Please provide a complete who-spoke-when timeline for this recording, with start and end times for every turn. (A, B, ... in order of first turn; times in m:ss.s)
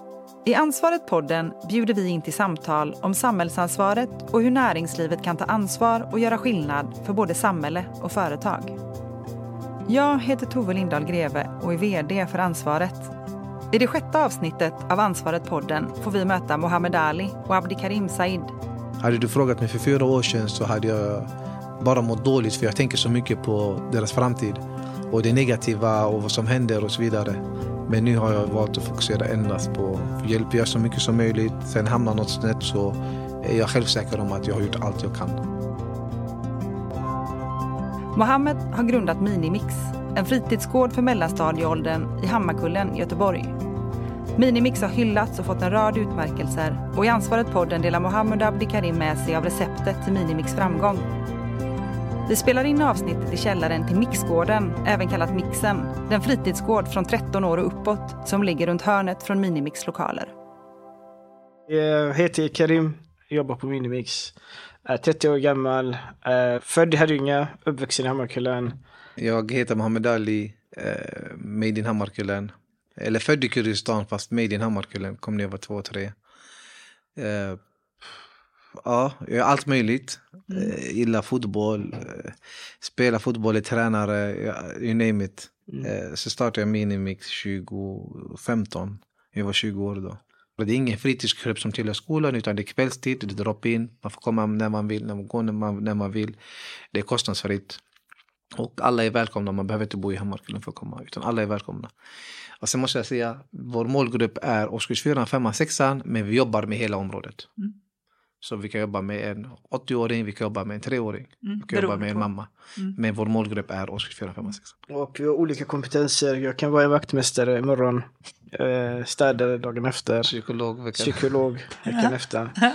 0:00.4-0:08.8 A
0:09.9-0:13.1 A
0:13.7-0:18.5 A
0:19.0-0:35.4 B
0:38.1-0:43.6 A
0:44.3-0:51.0 A
0:52.2-1:00.3 A
1:01.7-1:08.8 C
1:09.2-1:16.1 B
1:17.2-1:17.6 B
1:18.8-1:36.4 B
1:36.9-1:37.8 B
1:38.6-1:41.9 B
1:42.6-1:47.5 B
1:48.4-1:54.7 B
1:51.4-1:52.1 A
1:54.9-2:00.3 C
2:00.2-2:01.2 B
2:01.0-2:02.6 C